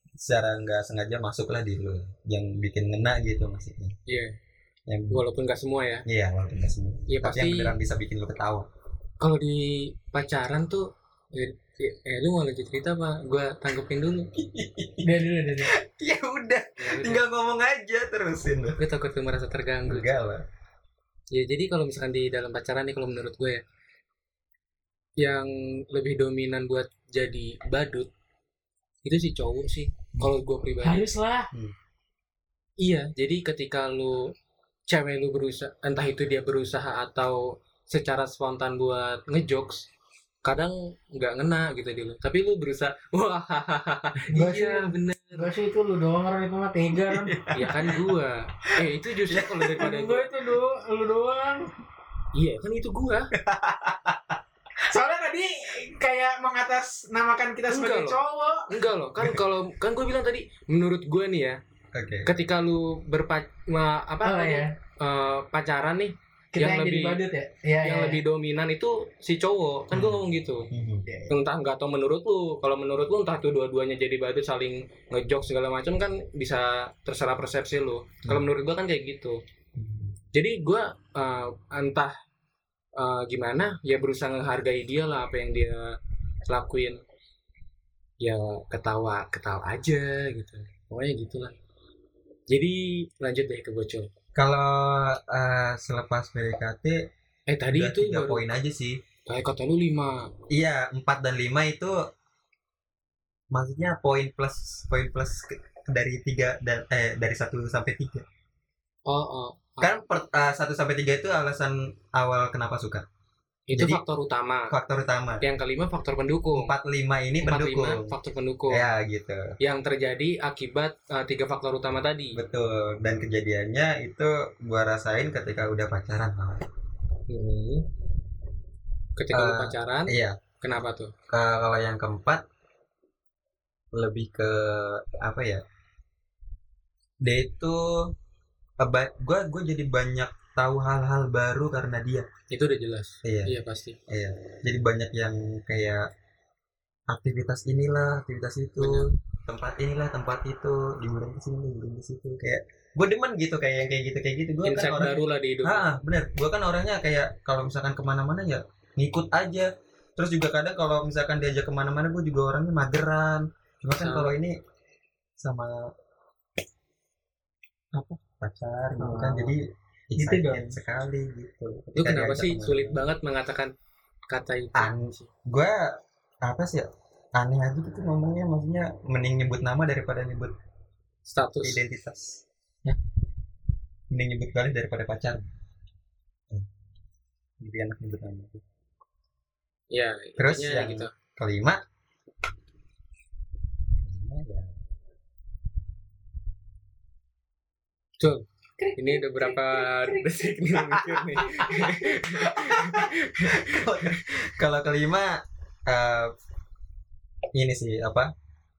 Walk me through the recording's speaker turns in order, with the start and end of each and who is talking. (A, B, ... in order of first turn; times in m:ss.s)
0:00.2-0:04.0 A
0:04.1-0:04.4 B
0:04.9-0:05.2 A
0:05.1-0:06.0 B
0:06.1-0:08.7 A
0:07.1-0:07.8 B
0:09.2-0:14.3 B
0:14.4-0:18.8 A
0:15.0-0:15.7 C
0:16.8-0:17.2 B
0:18.8-0:20.2 B
0:19.9-0:20.4 A
0:21.3-0:23.6 B
0:25.2-0:28.1 B
0:29.0-0:31.1 B
0:30.8-0:31.5 C
0:32.8-0:34.3 B
0:34.9-0:39.9 B
0:40.4-0:45.5 B
0:44.3-0:47.9 C
0:47.1-0:48.0 A
0:47.5-0:50.3 B
0:48.8-0:49.8 A
0:49.8-0:51.7 C
0:52.4-0:53.3 B
0:53.4-0:54.4 A
0:54.9-0:58.7 C
0:57.7-1:01.6 B
1:01.9-1:02.3 A
1:02.3-1:07.2 B
1:04.2-1:04.7 C
1:06.6-1:08.2 C
1:07.8-1:10.7 B
1:09.9-1:11.1 A
1:11.3-1:19.4 B
1:19.8-1:20.2 A
1:20.3-1:22.1 B
1:23.0-1:26.0 B
1:26.5-1:27.0 B
1:28.2-1:31.5 B
1:32.5-1:34.1 B
1:34.4-1:37.1 A
1:37.5-1:38.4 B
1:37.7-1:39.0 A
1:39.3-1:40.3 B
1:40.5-1:42.0 A
1:43.5-1:48.3 A
1:49.1-1:50.0 B
1:49.8-1:53.1 A
1:53.7-1:54.7 B
1:53.7-1:54.0 A
1:54.7-1:55.4 A
1:55.4-1:56.7 B
1:56.5-1:58.2 A
1:57.4-1:58.9 B
1:58.7-1:59.5 A
1:59.6-2:02.4 B
2:02.4-2:06.7 A
2:07.3-2:07.9 B
2:09.2-2:11.1 B
2:09.3-2:10.4 A
2:11.3-2:12.4 A
2:13.9-2:15.6 A
2:17.2-2:18.1 A
2:18.8-2:22.3 A
2:22.5-2:24.0 B
2:23.2-2:23.6 A
2:24.1-2:26.1 A
2:27.1-2:44.6 A
2:28.8-2:29.1 B
2:34.6-2:35.9 B
2:44.0-2:44.4 B
2:45.4-2:45.9 A
2:47.9-2:48.2 C
2:48.4-2:53.0 A
2:49.0-2:49.6 C
2:50.2-2:50.8 C
2:52.0-2:53.7 B
2:54.3-2:55.3 B
2:54.8-3:00.5 A
3:01.3-3:01.8 B
3:01.6-3:02.4 A
3:04.1-3:05.5 A
3:07.6-3:08.6 A
3:09.9-3:11.1 B
3:10.4-3:11.8 A
3:14.0-3:14.7 A
3:18.2-3:18.4 B
3:18.8-3:20.6 C
3:19.0-3:23.9 B
3:21.4-3:22.0 C
3:22.2-3:26.3 A
3:27.6-3:28.3 A